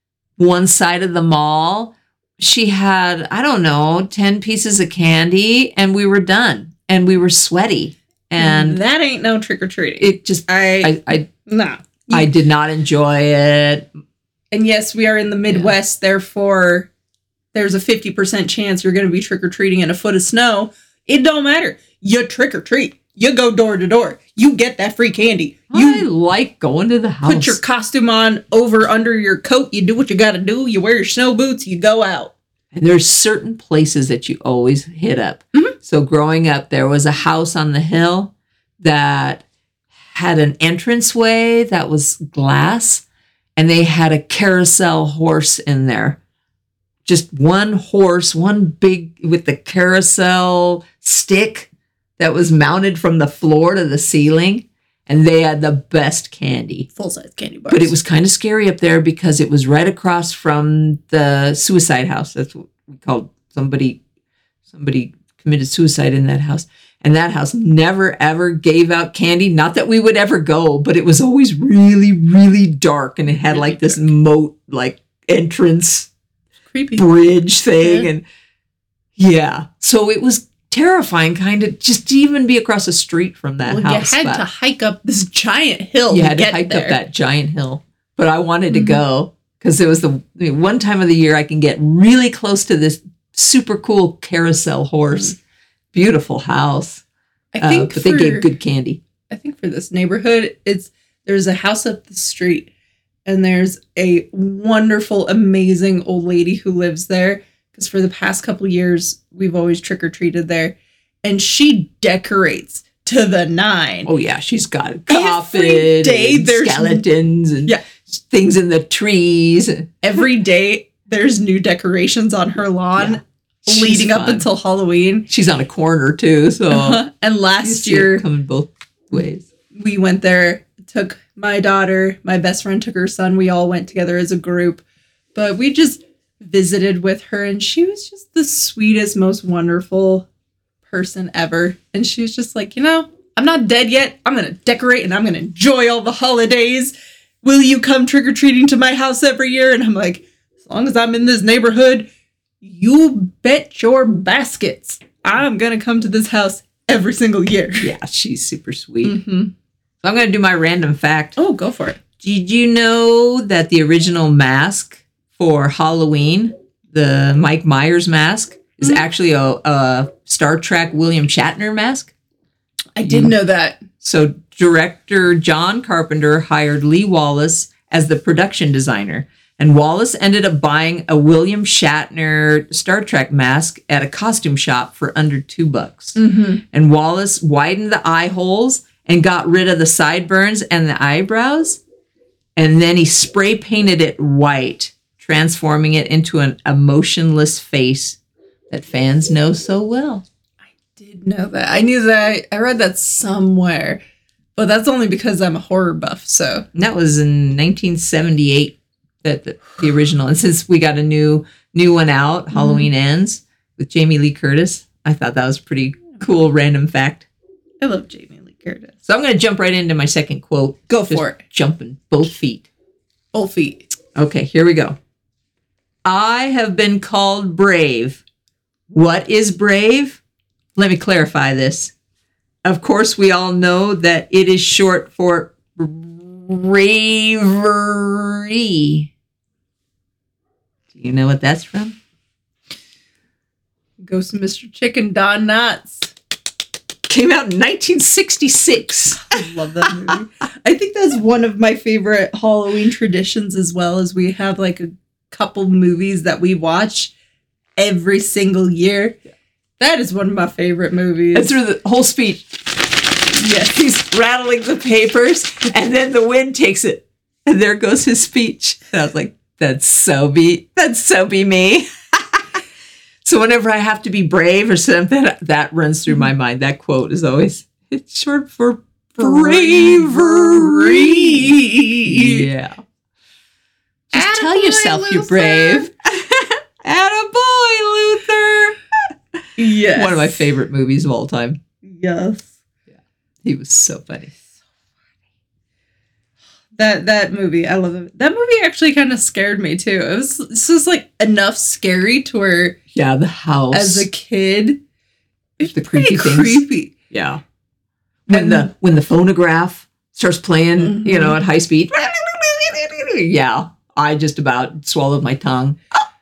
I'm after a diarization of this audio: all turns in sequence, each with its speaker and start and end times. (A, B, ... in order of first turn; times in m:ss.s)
0:00.4-0:08.8 A
0:08.4-0:10.9 B
0:10.0-0:11.3 A
0:11.5-0:12.3 B
0:12.1-0:13.9 A
0:14.5-0:16.9 B
0:15.5-0:15.7 A
0:17.5-0:26.1 B
0:25.7-0:27.6 A
0:27.2-0:32.3 B
0:32.7-0:39.4 A
0:40.1-0:43.0 A
0:43.6-0:46.2 A
0:47.0-0:56.9 A
0:56.9-0:57.9 B
0:57.7-1:04.0 A
1:04.7-1:16.1 A
1:13.3-1:14.1 B
1:16.7-1:17.0 B
1:17.0-1:18.2 A
1:17.8-1:18.1 B
1:19.2-1:24.5 A
1:23.6-1:27.0 B
1:26.1-1:35.4 A
1:28.7-1:29.0 B
1:35.9-1:37.0 A
1:37.5-1:38.5 B
1:37.6-1:39.0 A
1:39.3-1:42.7 B
1:43.3-1:54.1 B
1:54.1-1:59.9 A
1:55.1-1:57.1 B
2:00.0-2:05.3 B
2:03.0-2:04.5 A
2:05.3-2:07.0 A
2:06.7-2:08.2 B
2:07.6-2:09.5 A
2:09.7-2:14.8 B
2:15.4-2:20.3 B
2:20.9-2:32.1 B
2:32.6-2:37.9 B
2:37.8-2:39.2 A
2:39.0-2:39.5 B
2:40.0-2:41.4 A
2:41.4-2:42.0 B
2:42.2-2:52.1 A
2:53.0-2:53.8 B
2:53.1-2:53.3 A
2:54.0-3:06.2 A
3:06.2-3:06.6 B
3:06.7-3:11.8 A
3:12.6-3:18.2 A
3:18.7-3:20.2 A
3:20.8-3:24.0 B
3:24.6-3:26.7 B
3:26.7-3:37.3 A
3:32.5-3:32.9 B
3:37.8-3:39.0 B
3:39.0-3:42.7 A
3:40.9-3:41.4 B
3:43.3-3:43.9 B
3:44.2-3:45.0 A
3:46.0-3:48.2 A
3:48.9-3:50.2 A
3:50.8-3:51.9 A
3:52.6-3:59.1 A
4:00.9-4:02.0 A
4:04.0-4:06.1 B
4:07.1-4:10.1 A
4:09.2-4:17.1 B
4:17.8-4:19.2 B
4:19.8-4:21.6 B
4:21.3-4:32.6 A
4:33.2-4:42.8 A
4:39.2-4:42.5 B
4:44.1-4:51.6 A
4:44.1-4:45.9 B
4:49.6-4:50.4 B
4:51.8-4:52.5 B
4:52.9-4:54.3 A
4:56.8-5:02.8 B
5:02.9-5:04.1 A
5:03.7-5:04.8 B
5:05.6-5:06.9 B
5:05.6-5:07.4 A
5:08.3-5:15.8 A
5:08.3-5:08.7 B
5:10.8-5:11.4 B